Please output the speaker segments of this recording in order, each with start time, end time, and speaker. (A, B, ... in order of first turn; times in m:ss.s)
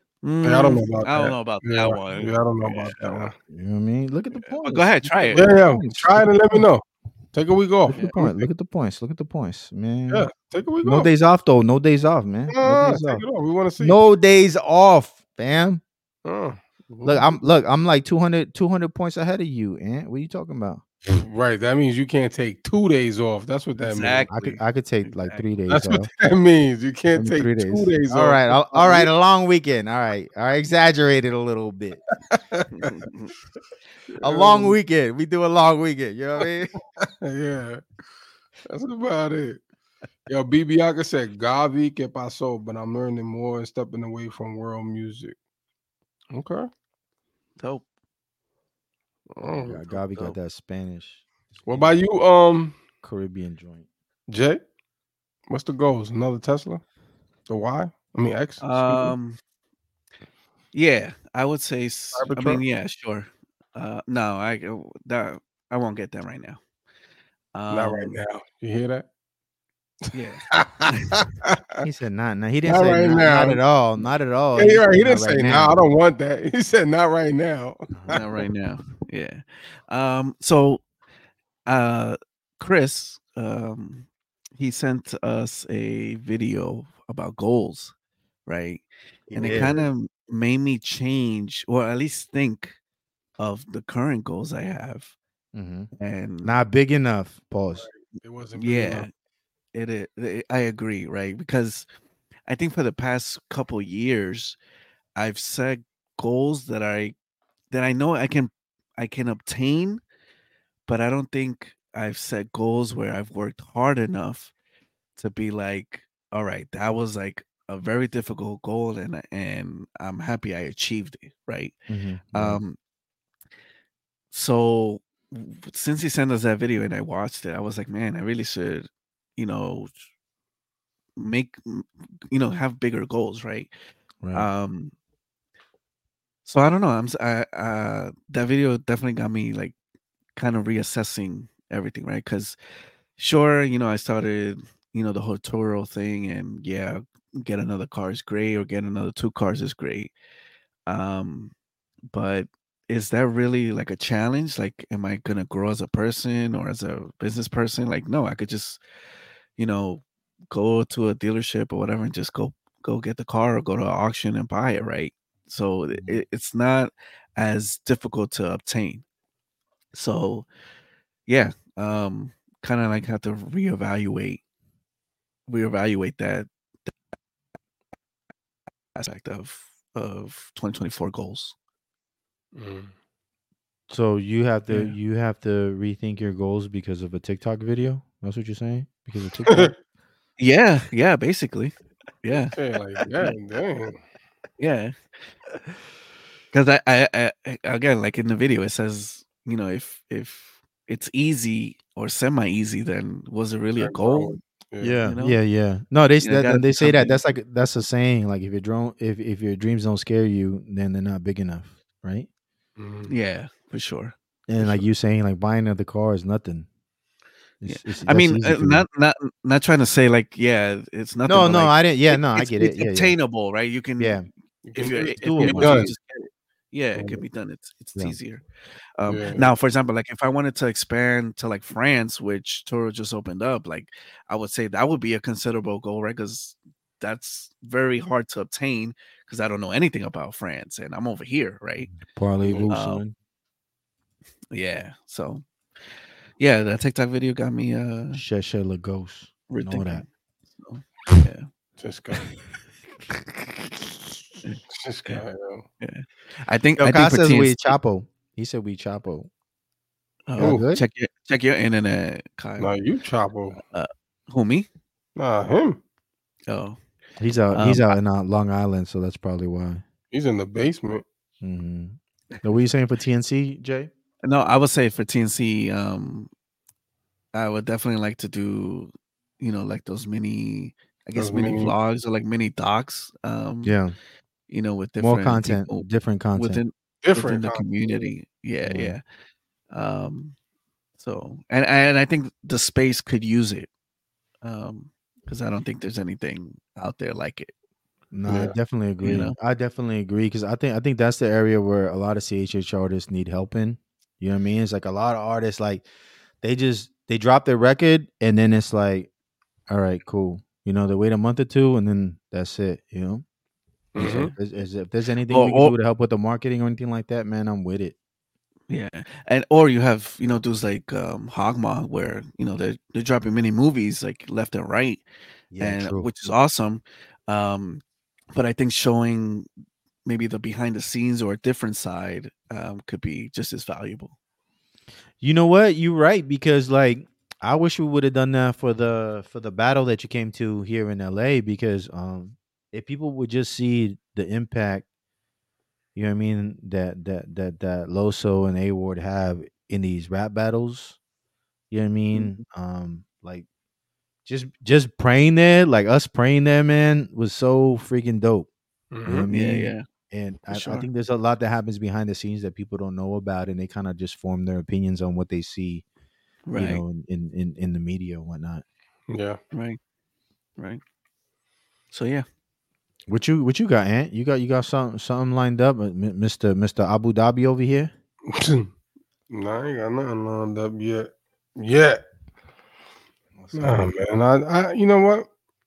0:00.2-0:03.3 A
0:00.4-0:03.3 B
0:03.5-0:06.7 C
0:04.4-0:05.5 A
0:05.3-0:08.5 B
0:07.9-0:10.3 C
0:10.1-0:11.1 B
0:10.8-0:13.2 C
0:12.5-0:14.0 B
0:13.8-0:15.8 C
0:16.2-0:17.4 B
0:17.0-0:20.8 C
0:21.1-0:24.3 B
0:23.8-0:25.4 A
0:24.3-0:26.1 C
0:25.7-0:29.1 B
0:27.1-0:32.0 C
0:32.3-0:32.7 B
0:32.8-0:33.3 A
0:34.2-0:34.7 B
0:34.2-0:36.7 C
0:37.0-0:37.8 B
0:38.6-0:39.6 B
0:40.3-0:45.3 B
0:46.3-0:46.7 B
0:47.6-0:47.8 A
0:49.4-0:49.8 B
0:49.6-0:51.2 C
0:51.7-0:52.8 B
0:53.0-0:53.9 C
0:54.3-0:54.6 B
0:55.5-0:56.8 B
0:57.5-0:59.1 B
0:58.6-0:59.4 A
1:00.7-1:06.6 A
1:02.1-1:02.6 B
1:07.5-1:08.2 A
1:07.7-1:09.0 B
1:10.1-1:11.2 A
1:10.5-1:11.8 B
1:11.8-1:15.8 C
1:12.6-1:13.6 B
1:14.6-1:18.2 B
1:17.9-1:18.2 C
1:18.1-1:20.8 A
1:21.7-1:24.1 A
1:24.6-1:27.9 A
1:28.5-1:32.8 A
1:29.3-1:29.8 C
1:29.4-1:29.8 B
1:33.4-1:35.1 A
1:35.5-1:35.9 C
1:36.0-1:36.5 A
1:36.4-1:37.8 C
1:37.7-1:39.1 B
1:38.6-1:39.1 A
1:39.7-1:41.8 A
1:42.5-1:44.6 A
1:45.2-1:47.1 A
1:47.7-1:50.0 A
1:50.9-1:54.5 A
1:55.2-2:01.7 A
2:01.9-2:02.6 C
2:02.3-2:02.8 A
2:04.3-2:09.9 A
2:11.2-2:13.7 A
2:14.2-2:14.5 C
2:14.3-2:14.9 A
2:16.4-2:19.7 A
2:20.4-2:22.6 A
2:23.2-2:30.1 A
2:30.9-2:31.5 A
2:32.1-2:38.8 A
2:39.6-2:49.0 A
2:45.9-2:46.2 C
2:49.9-2:50.4 A
2:51.3-2:54.4 A
2:55.5-2:56.9 A
2:58.9-3:01.5 A
3:02.5-3:02.9 B
3:03.9-3:09.7 C
3:04.7-3:04.9 A
3:09.4-3:09.7 B
3:10.4-3:12.5 A
3:12.5-3:14.0 B
3:14.6-3:15.0 A
3:16.5-3:24.4 A
3:23.8-3:25.0 B
3:24.8-3:32.3 C
3:25.0-3:25.4 A
3:26.2-3:27.2 A
3:32.8-3:33.1 B
3:33.1-3:34.8 A
3:34.5-3:36.7 C
3:37.6-3:38.8 C
3:37.6-3:44.2 A
3:41.2-3:43.2 C
3:44.0-3:44.3 C
3:44.6-3:45.9 B
3:44.7-3:48.4 A
3:44.8-3:46.0 C
3:46.9-3:47.2 B
3:49.0-4:01.9 A
3:49.0-3:49.5 B
4:02.0-4:03.1 C
4:02.7-4:03.0 A
4:04.5-4:05.4 A
4:06.4-4:08.2 A
4:08.1-4:10.0 C
4:09.5-4:10.0 A
4:10.6-4:11.5 A
4:11.8-4:12.3 B
4:13.1-4:13.4 A
4:14.4-4:15.2 A
4:14.7-4:15.6 B
4:15.8-4:17.7 A
4:16.8-4:19.3 C
4:20.3-4:22.7 A
4:20.4-4:20.8 C
4:20.4-4:20.6 B
4:22.6-4:23.6 B
4:23.6-4:24.7 A
4:25.2-4:25.8 B
4:26.5-4:26.8 A
4:27.2-4:29.8 C
4:27.5-4:27.9 A
4:30.1-4:31.0 B
4:31.4-4:33.9 C
4:34.2-4:36.3 A
4:37.3-4:43.8 A
4:41.2-4:41.8 B
4:43.6-4:43.9 C
4:44.5-4:49.0 A
4:45.0-4:46.6 C
4:47.0-4:48.1 B
4:48.6-4:49.0 C
4:49.7-4:50.4 A
4:51.0-4:53.7 A
4:54.4-4:57.5 A
4:58.1-5:05.8 C
4:58.3-4:58.5 B
4:59.0-4:59.4 A
5:06.4-5:09.1 C
5:09.7-5:13.2 C
5:13.9-5:14.3 B
5:14.0-5:18.0 C
5:14.0-5:14.3 A
5:15.3-5:15.7 A
5:18.7-5:25.0 A
5:25.5-5:26.1 C
5:25.6-5:27.8 A
5:28.3-5:29.4 A
5:30.0-5:34.1 A
5:35.2-5:44.8 C
5:45.9-5:51.0 C
5:51.7-5:53.4 C
5:52.1-5:52.4 A
5:54.2-5:58.5 C
5:58.9-5:59.3 B
5:59.0-6:05.8 C
5:59.3-5:59.8 A
6:00.5-6:00.9 A
6:06.4-6:06.8 A
6:06.5-6:08.6 C
6:09.1-6:09.4 B
6:09.5-6:09.8 A
6:11.9-6:12.2 A
6:13.1-6:17.9 C
6:18.3-6:18.7 B
6:19.3-6:22.0 B
6:23.4-6:23.9 C
6:23.5-6:25.3 B